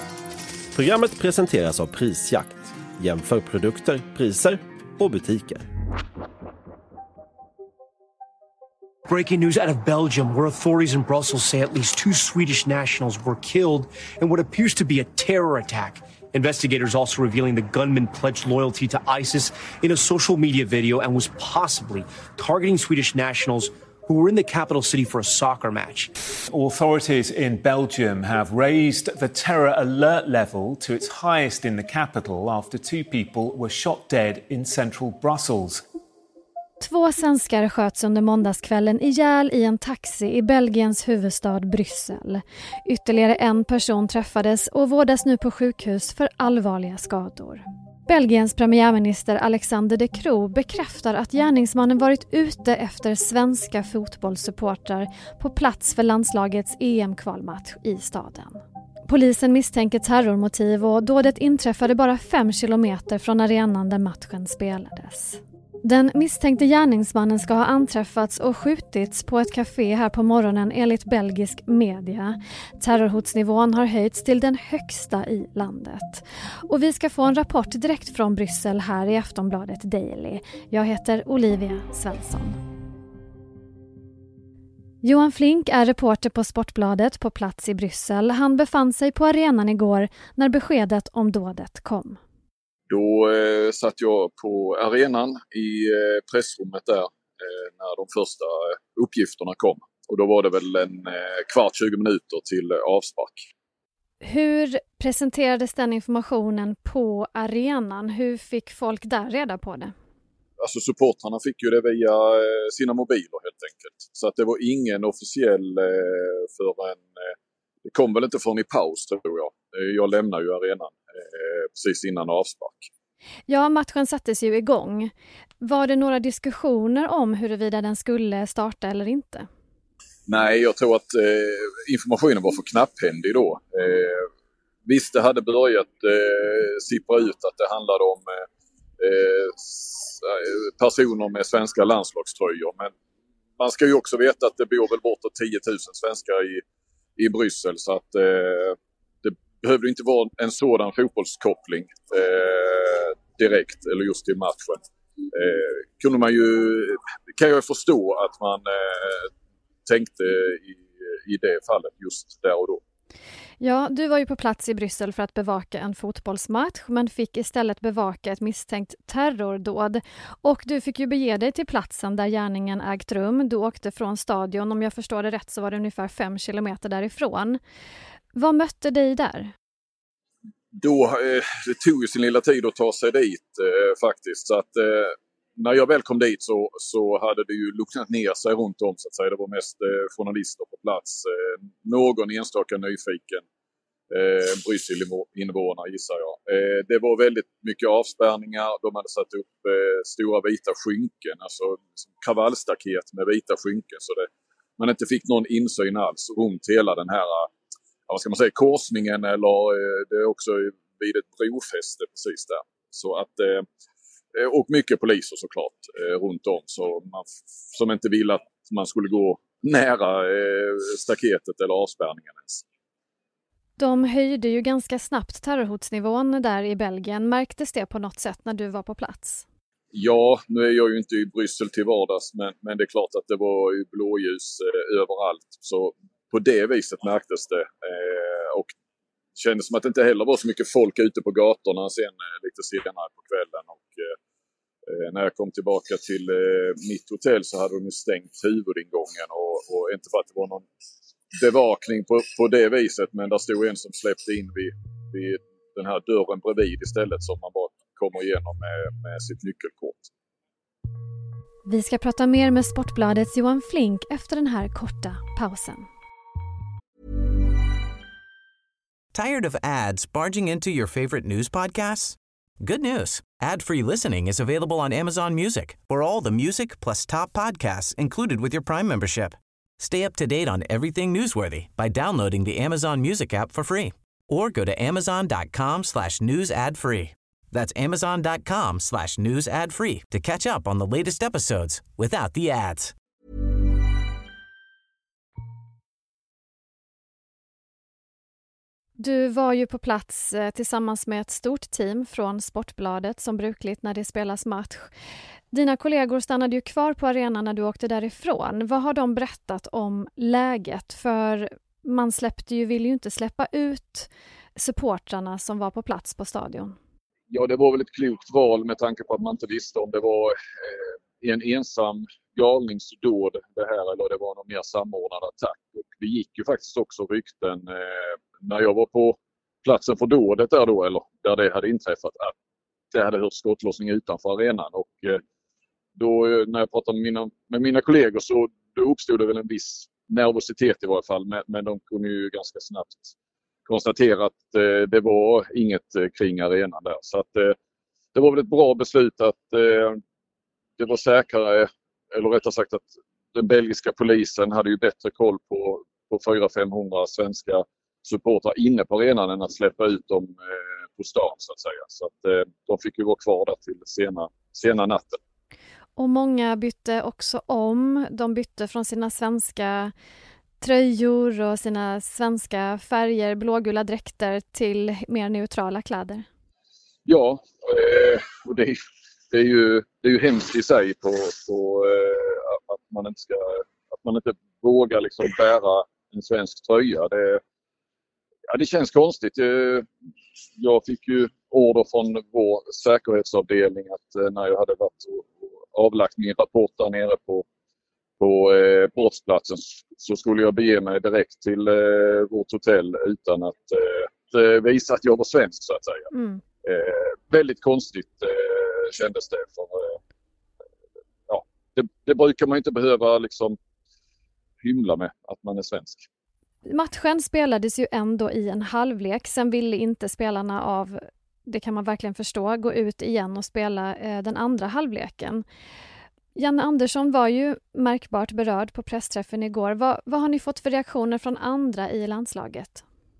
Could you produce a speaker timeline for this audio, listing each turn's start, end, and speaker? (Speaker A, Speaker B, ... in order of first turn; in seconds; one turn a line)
Speaker A: 0.7-5.6
Speaker B: 9.1-26.1
Speaker C: 26.5-35.8
Speaker D: 36.8-82.6
Speaker D: 85.0-92.2
Speaker E: 92.9-103.5
Speaker D: 104.2-109.9
Speaker E: 110.6-117.2
Speaker E: 117.8-122.9
Speaker D: 123.5-129.5
Speaker E: 130.3-134.3
Speaker E: 134.8-138.4
Speaker E: 139.0-142.9
Speaker E: 143.6-146.6
Speaker E: 147.2-159.3
Speaker E: 159.8-162.8
Speaker D: 163.6-177.6
Speaker D: 178.3-179.5
Speaker E: 180.8-193.4
Speaker E: 194.1-207.5
Speaker E: 208.1-213.6
Speaker E: 214.3-222.6
Speaker D: 223.8-229.4
Speaker E: 229.9-238.7
Speaker E: 239.4-244.1
Speaker E: 244.9-250.7
Speaker E: 251.3-260.1
Speaker D: 261.7-265.9
Speaker F: 269.1-292.9
Speaker D: 299.0-304.9
Speaker D: 305.5-316.8
Speaker E: 317.3-332.3
Speaker E: 332.9-335.2
Speaker E: 336.0-343.1
Speaker E: 343.6-347.6
Speaker E: 348.1-350.0
Speaker E: 350.8-365.2
Speaker D: 365.9-369.9
Speaker D: 370.6-376.3
Speaker E: 377.1-378.8
Speaker E: 379.3-387.4
Speaker E: 388.5-389.9
Speaker E: 390.6-397.4
Speaker E: 398.2-406.1
Speaker D: 406.1-406.4
Speaker E: 406.6-410.0
Speaker E: 411.3-413.6
Speaker E: 414.6-416.1
Speaker D: 416.6-425.4
Speaker D: 426.3-432.8